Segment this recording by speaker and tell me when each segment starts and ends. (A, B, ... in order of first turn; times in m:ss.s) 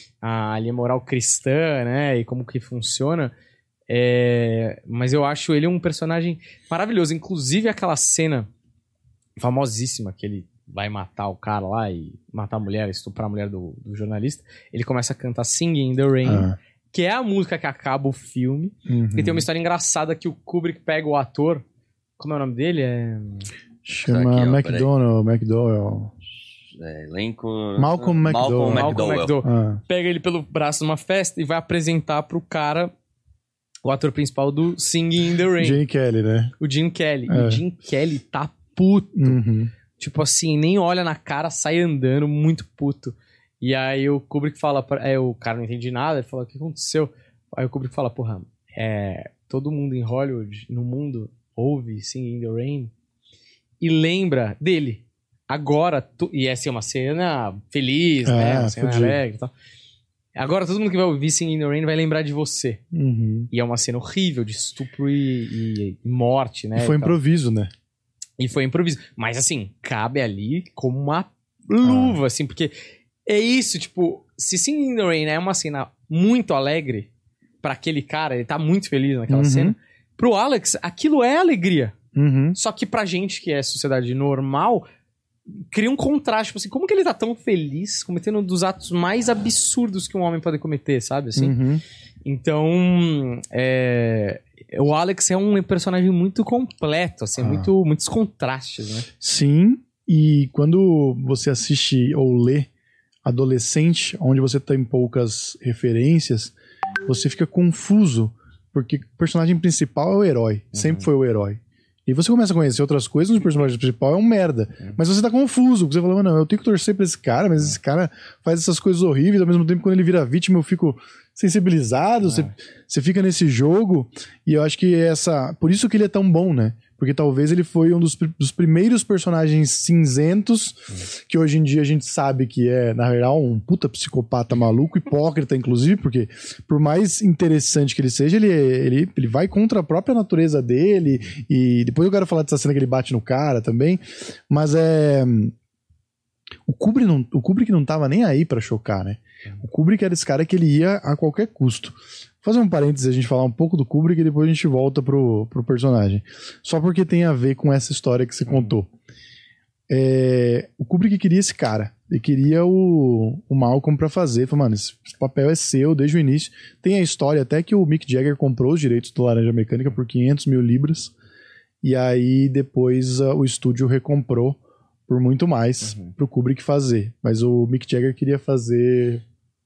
0:00.2-0:03.3 A
0:03.9-0:08.5 A
0:09.4-0:21.6 A
0:16.2-0:16.6 B
0:18.9-0:19.4 B
0:22.2-0:23.5 A
0:23.8-0:26.1 B
0:24.0-0:24.9 C
0:26.8-0:29.4 C
0:27.8-0:29.8 B
0:28.6-0:32.9 A
0:33.8-0:35.8 A
0:35.6-0:36.5 B
0:36.6-0:39.4 A
0:37.3-0:37.6 B
0:39.1-0:39.7 B
0:40.0-0:52.9 A
0:53.8-0:59.5 A
0:58.2-0:59.2 B
1:00.4-1:02.8 A
1:02.9-1:03.5 B
1:03.5-1:07.2 A
1:06.8-1:07.7 B
1:08.4-1:12.7 A
1:11.8-1:12.2 B
1:13.2-1:17.1 A
1:17.6-1:22.0 A
1:19.3-1:19.7 B
1:22.1-1:22.6 B
1:22.5-1:24.9 A
1:25.7-1:31.6 A
1:31.4-1:31.8 B
1:32.2-1:39.1 A
1:37.4-1:37.7 B
1:39.2-1:42.7 B
1:43.2-1:46.5 B
1:47.0-2:25.5 B
1:50.7-1:51.1 A
2:02.2-2:02.5 A
2:26.6-2:38.9 B
2:38.5-2:38.7 A
2:39.9-2:51.1 B
2:51.8-2:59.2 B
2:55.8-2:56.1 A